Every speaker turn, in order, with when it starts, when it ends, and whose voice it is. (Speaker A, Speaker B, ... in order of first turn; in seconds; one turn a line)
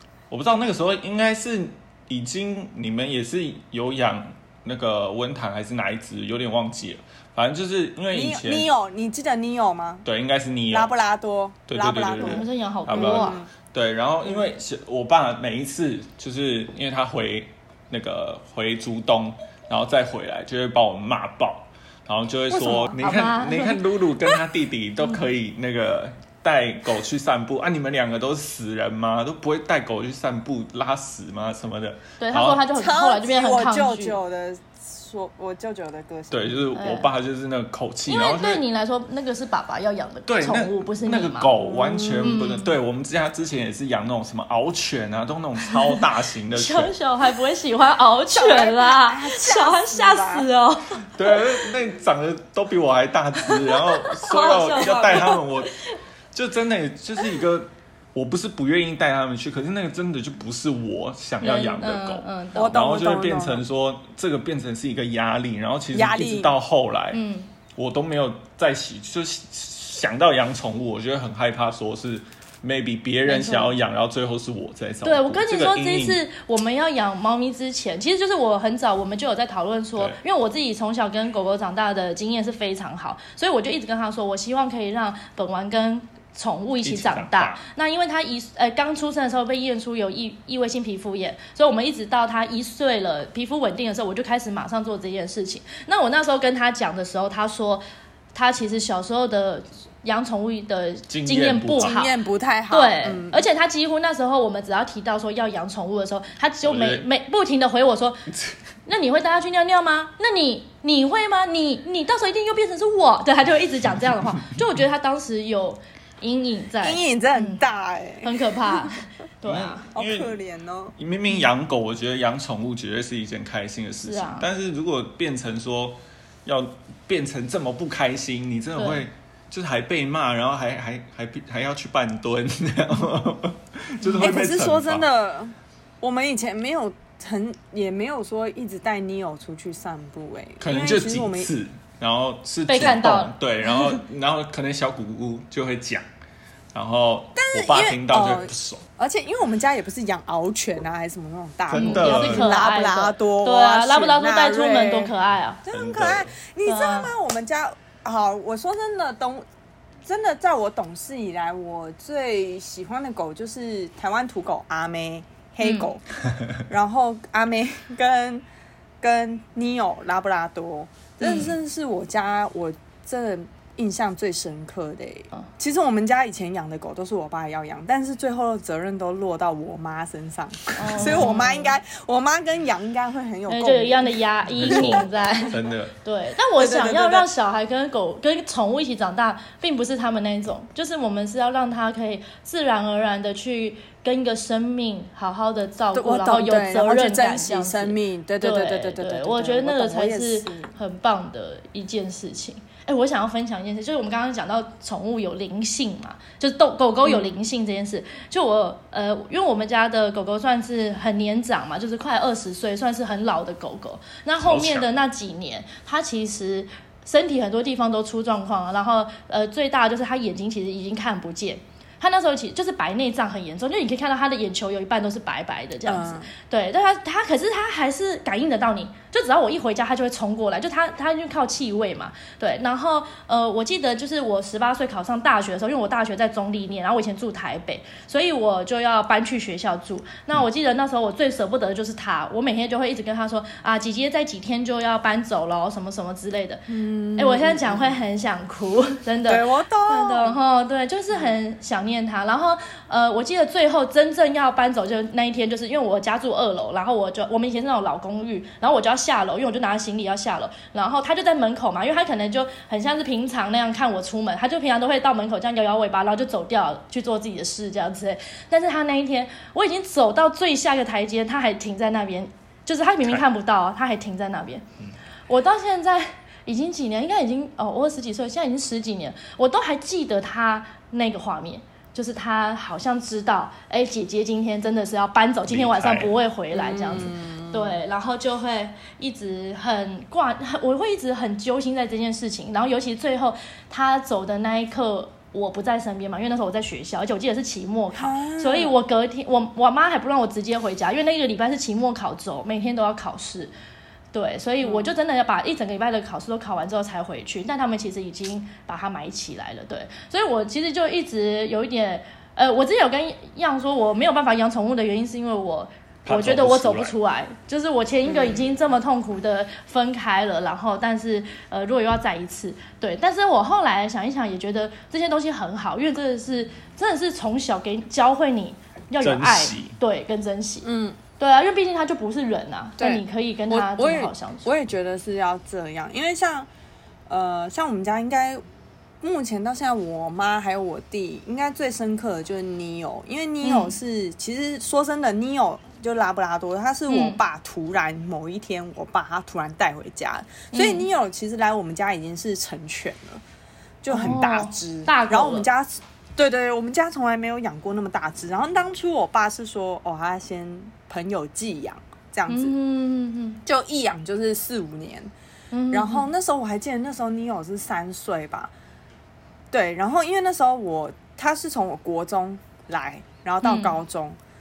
Speaker A: 0.3-8.7
Speaker B: 8.1-10.1
Speaker A: 10.0-10.9
Speaker B: 10.7-13.5
Speaker A: 11.7-32.6
Speaker C: 12.2-13.4
Speaker B: 14.2-14.5
Speaker B: 22.5-23.0
Speaker C: 23.0-23.8
Speaker C: 32.2-34.2
Speaker B: 32.7-36.6
Speaker A: 36.3-38.6
Speaker C: 36.7-37.1
Speaker C: 38.0-41.5
Speaker A: 40.3-46.9
Speaker B: 41.6-42.4
Speaker C: 42.2-42.7
Speaker C: 45.7-46.0
Speaker C: 46.5-51.4
Speaker B: 48.3-50.5
Speaker A: 51.1-55.8
Speaker C: 53.5-55.9
Speaker A: 56.3-67.2
Speaker C: 61.4-62.8
Speaker B: 62.5-63.6
Speaker B: 65.9-66.5
Speaker C: 67.1-67.5
Speaker A: 67.7-76.2
Speaker C: 73.2-73.7
Speaker C: 75.0-97.8
Speaker A: 86.8-87.6
Speaker C: 98.3-102.1
Speaker A: 101.1-102.0
Speaker B: 101.8-103.4
Speaker C: 102.7-108.3
Speaker A: 106.6-107.0
Speaker C: 108.8-117.6
Speaker B: 116.8-118.9
Speaker C: 118.2-119.9
Speaker A: 119.4-120.3
Speaker B: 119.9-120.9
Speaker A: 121.0-135.1
Speaker C: 124.0-124.5
Speaker C: 128.8-129.1
Speaker C: 134.0-134.3
Speaker B: 134.2-141.5
Speaker A: 140.6-146.0
Speaker C: 142.7-143.3
Speaker A: 146.7-148.8
Speaker B: 147.3-155.1
Speaker A: 151.7-152.5
Speaker C: 151.7-155.6
Speaker B: 155.6-159.4
Speaker A: 155.7-156.3
Speaker C: 156.6-157.1
Speaker B: 160.0-166.0
Speaker C: 165.6-165.9
Speaker B: 166.7-168.4
Speaker B: 169.0-185.1
Speaker C: 171.2-171.5
Speaker C: 180.8-181.7
Speaker C: 183.5-274.6
Speaker A: 184.6-185.9
Speaker B: 186.6-187.3
Speaker B: 195.9-200.7
Speaker A: 214.4-214.9
Speaker B: 225.8-226.3
Speaker B: 246.7-248.0
Speaker B: 249.3-250.4
Speaker C: 275.3-303.5
Speaker A: 285.5-286.1
Speaker B: 286.5-287.8
Speaker B: 297.9-298.7
Speaker C: 304.1-334.5
Speaker B: 304.6-304.9
Speaker A: 316.0-316.9
Speaker B: 318.1-318.5
Speaker A: 329.0-329.7
Speaker B: 330.6-331.0
Speaker B: 332.8-336.5
Speaker B: 337.1-338.4
Speaker B: 339.0-353.2
Speaker C: 343.4-343.7
Speaker C: 346.9-347.2
Speaker C: 350.5-350.9
Speaker B: 353.8-362.5
Speaker C: 353.9-355.4
Speaker C: 362.3-363.4
Speaker B: 363.4-365.1
Speaker C: 365.5-366.1
Speaker B: 365.7-368.5
Speaker B: 369.5-374.2
Speaker C: 373.4-373.8